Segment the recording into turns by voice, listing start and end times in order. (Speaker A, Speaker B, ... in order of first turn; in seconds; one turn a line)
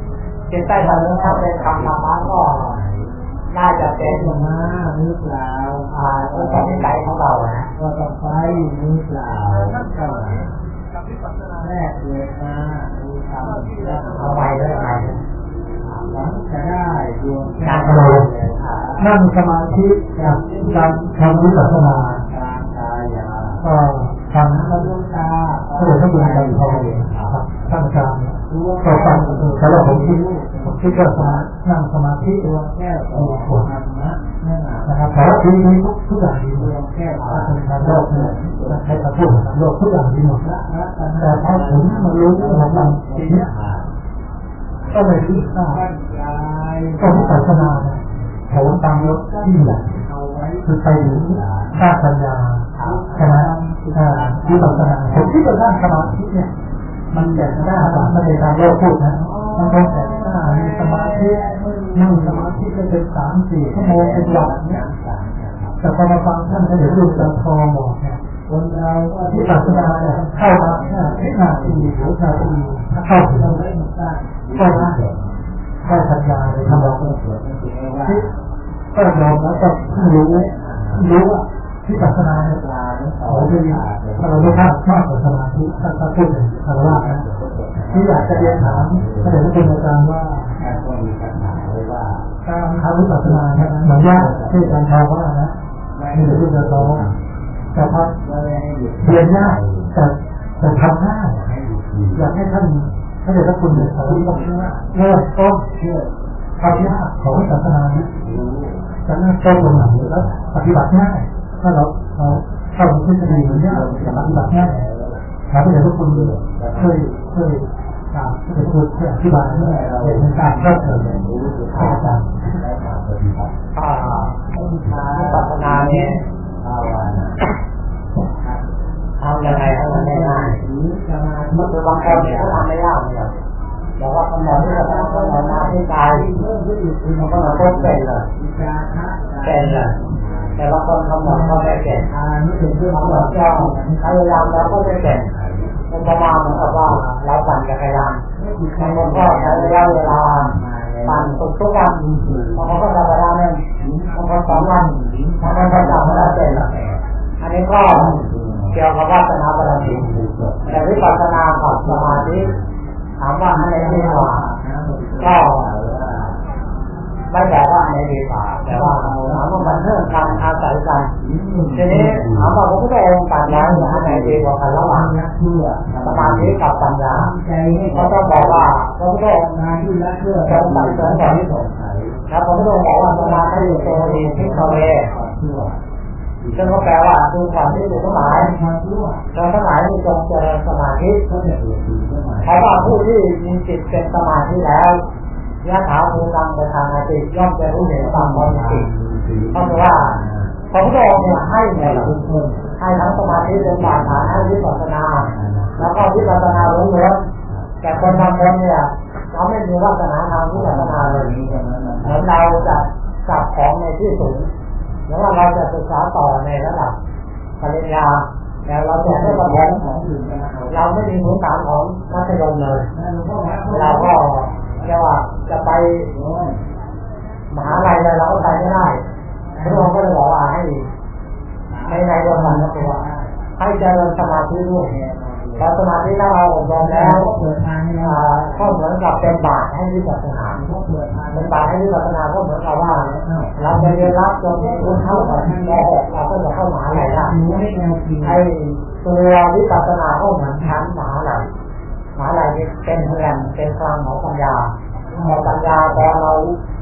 Speaker A: 0.5-2.8
Speaker B: 0.7-3.2
Speaker A: 3.5-4.4
Speaker B: 3.7-7.1
Speaker A: 5.9-7.7
Speaker B: 7.7-10.5
Speaker C: 9.6-11.7
Speaker B: 11.6-14.8
Speaker C: 13.5-14.0
Speaker A: 14.1-15.2
Speaker B: 15.8-19.2
Speaker A: 17.6-18.2
Speaker C: 17.8-18.3
Speaker C: 19.0-22.2
Speaker B: 20.0-23.7
Speaker C: 23.6-24.9
Speaker B: 24.3-27.4
Speaker C: 25.8-32.5
Speaker B: 28.5-31.5
Speaker B: 32.4-35.1
Speaker C: 33.1-33.7
Speaker C: 34.9-40.5
Speaker B: 36.5-39.4
Speaker B: 40.3-43.9
Speaker C: 41.2-43.5
Speaker C: 44.9-45.8
Speaker B: 44.9-47.9
Speaker C: 47.0-49.9
Speaker B: 48.5-51.9
Speaker C: 50.6-56.5
Speaker B: 52.7-55.6
Speaker B: 57.1-62.6
Speaker C: 57.1-64.8
Speaker B: 63.6-65.9
Speaker C: 65.8-68.2
Speaker B: 66.5-67.4
Speaker B: 68.5-78.4
Speaker C: 69.3-73.6
Speaker C: 74.5-75.0
Speaker C: 75.8-77.1
Speaker C: 78.9-82.6
Speaker B: 78.9-81.2
Speaker B: 82.1-84.7
Speaker C: 83.2-87.2
Speaker B: 86.6-89.8
Speaker C: 87.9-90.6
Speaker B: 90.5-92.3
Speaker C: 92.4-95.6
Speaker B: 93.1-94.8
Speaker B: 96.0-97.2
Speaker C: 96.1-97.1
Speaker C: 97.7-98.1
Speaker B: 98.2-100.0
Speaker C: 99.0-101.5
Speaker B: 101.4-102.3
Speaker C: 102.1-105.7
Speaker B: 103.7-104.8
Speaker B: 105.8-106.9
Speaker C: 106.6-108.1
Speaker B: 107.9-110.5
Speaker C: 109.0-114.8
Speaker B: 113.2-115.2
Speaker C: 115.5-122.4
Speaker B: 115.8-117.1
Speaker B: 119.3-123.6
Speaker A: 123.7-124.4
Speaker B: 124.5-127.5
Speaker A: 124.9-126.2
Speaker B: 128.3-128.6
Speaker A: 129.2-130.6
Speaker B: 129.4-132.7
Speaker A: 131.5-133.4
Speaker A: 134.0-136.3
Speaker B: 134.3-147.0
Speaker A: 137.2-138.3
Speaker A: 139.4-140.0
Speaker A: 140.6-142.1
Speaker A: 142.7-145.3
Speaker A: 145.9-148.2
Speaker B: 148.3-152.8
Speaker A: 148.8-150.5
Speaker A: 151.1-152.0
Speaker A: 152.6-156.7
Speaker B: 153.8-157.0
Speaker A: 157.4-158.2
Speaker B: 157.8-158.8
Speaker A: 158.7-162.5
Speaker B: 159.7-162.7
Speaker A: 163.2-164.5
Speaker B: 163.5-166.4
Speaker A: 165.2-165.7
Speaker A: 167.3-171.1
Speaker B: 168.7-170.6
Speaker B: 171.1-172.6
Speaker A: 171.7-175.1
Speaker B: 173.4-178.7
Speaker A: 176.0-177.3
Speaker A: 177.9-179.6
Speaker B: 179.5-185.8
Speaker A: 180.4-181.4
Speaker A: 182.3-185.2
Speaker B: 186.4-186.9
Speaker A: 186.5-188.5
Speaker B: 187.8-189.3
Speaker A: 189.3-191.2
Speaker B: 191.3-192.8
Speaker A: 192.4-195.0
Speaker A: 195.6-198.9
Speaker B: 197.7-206.8
Speaker A: 199.5-200.2
Speaker A: 200.7-202.2
Speaker A: 202.8-207.2
Speaker B: 207.5-208.5
Speaker A: 207.8-211.3
Speaker B: 210.5-212.8
Speaker A: 212.0-214.5
Speaker A: 215.1-216.9
Speaker A: 217.6-219.8
Speaker B: 218.9-221.2
Speaker A: 220.7-222.9
Speaker B: 222.9-224.2
Speaker A: 223.7-226.1
Speaker B: 226.1-226.7
Speaker A: 227.5-229.1
Speaker B: 227.6-228.9
Speaker B: 229.5-230.0
Speaker A: 229.6-230.9
Speaker B: 231.7-233.4
Speaker A: 231.8-233.0
Speaker A: 233.6-234.9
Speaker B: 234.8-235.8
Speaker A: 235.6-237.3
Speaker B: 236.8-238.8
Speaker A: 238.0-240.6
Speaker B: 240.5-241.8
Speaker A: 241.3-247.4
Speaker B: 242.8-245.9
Speaker B: 246.9-248.4
Speaker A: 248.2-251.5
Speaker A: 252.2-256.6
Speaker B: 255.1-255.6